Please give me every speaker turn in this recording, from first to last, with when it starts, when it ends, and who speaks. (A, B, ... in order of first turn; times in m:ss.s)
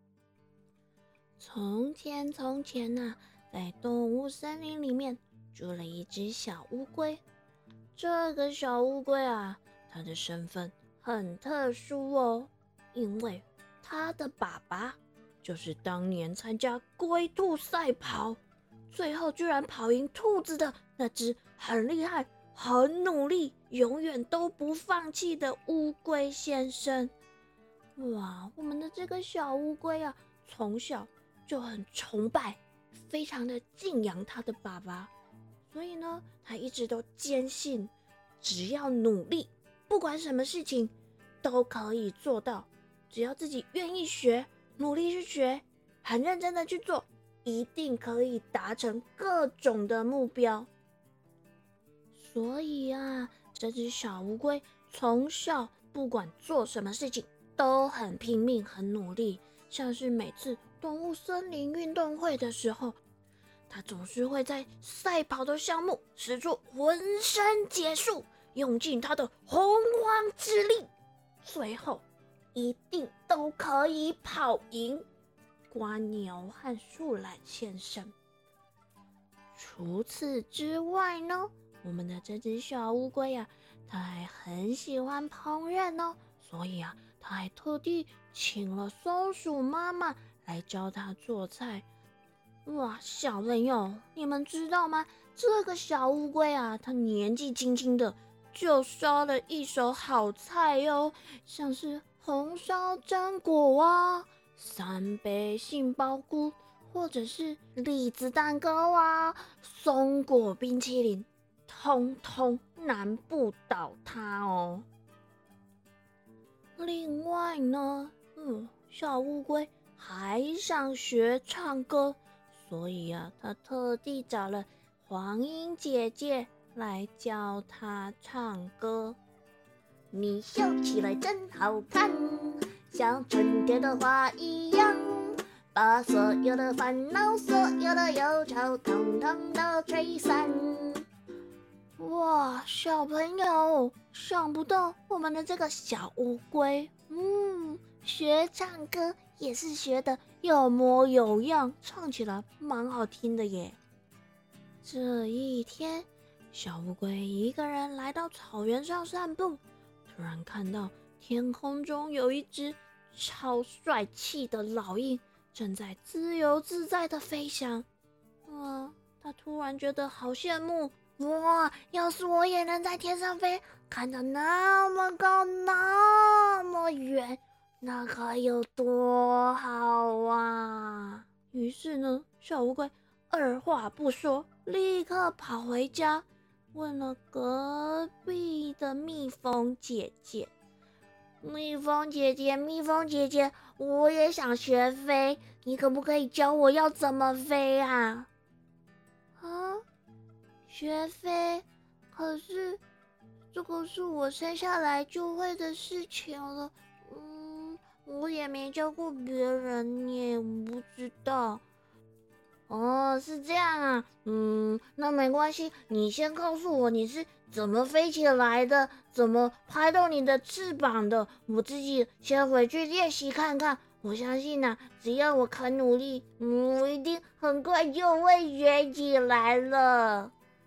0:01.4-0:07.2 A
0:07.9-0:18.4 A
0:18.9-0:27.1 A
0:28.0-0:35.1 A
0:35.7-0:50.7 A
0:52.1-1:03.0 A
1:03.7-1:10.9 A
1:11.4-1:15.0 A
1:15.7-1:18.1 A
1:19.5-1:31.8 A
1:32.6-1:54.8 A
1:56.8-2:09.2 A
2:10.1-2:21.0 A
2:22.0-2:33.8 A
2:34.8-2:47.8 A
2:48.5-3:10.5 A
3:11.4-3:18.3 A
3:19.4-3:19.8 A
3:20.7-3:22.8 A
3:23.5-3:31.6 A
3:32.7-3:50.3 A